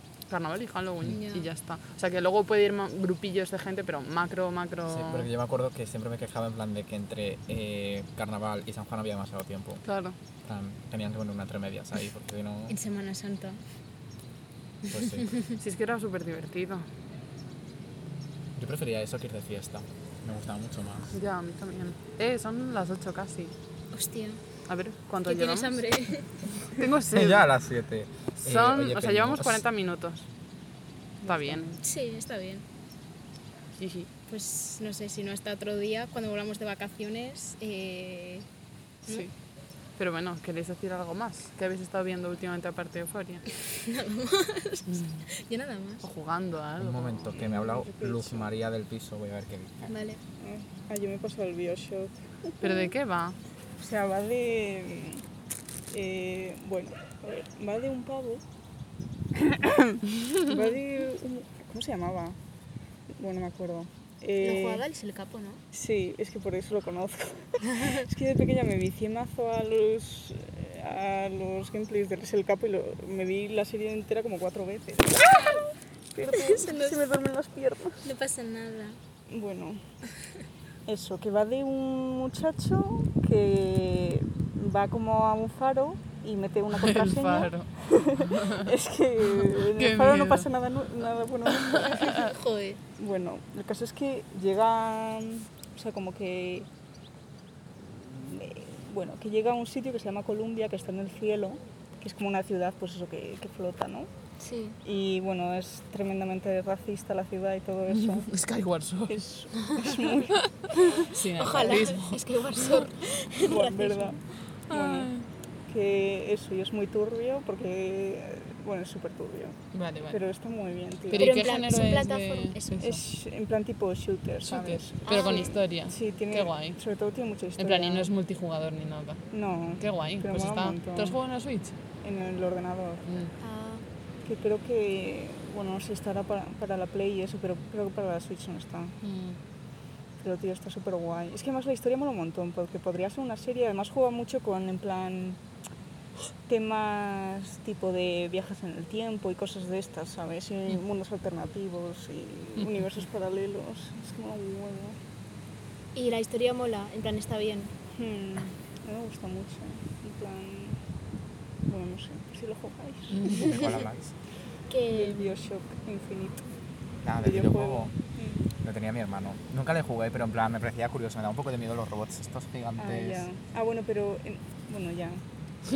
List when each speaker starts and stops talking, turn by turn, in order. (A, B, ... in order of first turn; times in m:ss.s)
0:00.3-0:05.3 A
0:01.0-0:01.5 B
0:04.9-0:09.8 C
0:09.8-0:10.2 A
0:10.4-0:12.8 C
0:12.7-0:13.6 B
0:14.9-0:15.4 C
0:15.0-0:15.6 B
0:15.6-0:16.8 A
0:18.6-0:21.1 C
0:21.1-0:23.5 A
0:23.9-0:24.4 B
0:24.7-0:25.8 A
0:25.2-0:26.3 B
0:26.7-0:27.5 A
0:27.1-0:29.6 C
0:28.4-0:30.3 A
0:31.2-0:31.7 D
0:31.2-0:31.8 A
0:31.8-0:32.6 B
0:33.8-0:34.1 A
0:34.3-0:38.4 B
0:39.0-0:39.3 A
0:40.0-0:43.4 A
0:43.6-0:46.0 B
0:44.9-0:45.2 A
0:46.0-0:47.8 A
0:46.8-0:49.9 C
0:47.4-0:48.5 D
0:49.9-0:50.2 B
0:50.4-0:52.9 D
0:52.6-0:53.4 A
0:53.8-0:55.2 D
0:55.9-0:58.4 D
0:59.3-1:02.4 D
1:03.1-1:04.8 D
1:04.4-1:05.6 B
1:05.7-1:15.6 D
1:07.6-1:08.0 B
1:16.1-1:18.0 D
1:16.2-1:17.0 B
1:18.0-1:19.0 B
1:19.3-1:19.8 D
1:20.8-1:32.0 D
1:26.8-1:27.7 A
1:28.2-1:28.7 A
1:29.6-1:30.5 A
1:31.5-1:32.3 A
1:31.8-1:32.8 B
1:33.0-1:36.7 D
1:37.8-1:44.1 D
1:44.4-1:44.8 B
1:44.8-1:48.3 D
1:47.9-1:49.2 A
1:49.1-1:50.4 D
1:50.8-1:54.1 B
1:51.1-1:52.9 A
1:53.4-1:55.1 D
1:54.7-1:55.2 A
1:55.7-2:01.4 D
1:59.7-2:00.2 A
2:01.1-2:02.8 A
2:01.2-2:03.0 B
2:02.8-2:08.1 D
2:04.4-2:06.8 A
2:05.0-2:05.6 B
2:07.6-2:09.2 A
2:09.3-2:11.2 D
2:09.8-2:11.8 A
2:12.0-2:13.0 D
2:13.1-2:13.3 A
2:13.4-2:13.8 B
2:14.2-2:19.0 D
2:19.0-2:19.4 A
2:20.2-2:25.4 D
2:26.4-2:35.0 D
2:35.9-2:37.7 B
2:37.9-2:40.8 D
2:41.6-2:43.5 D
2:43.1-2:43.4 A
2:43.2-2:44.1 C
2:44.7-2:45.3 B
2:44.9-2:46.4 D
2:47.0-2:47.9 C
2:47.2-2:48.4 D
2:48.6-2:53.2 C
2:52.8-2:55.2 D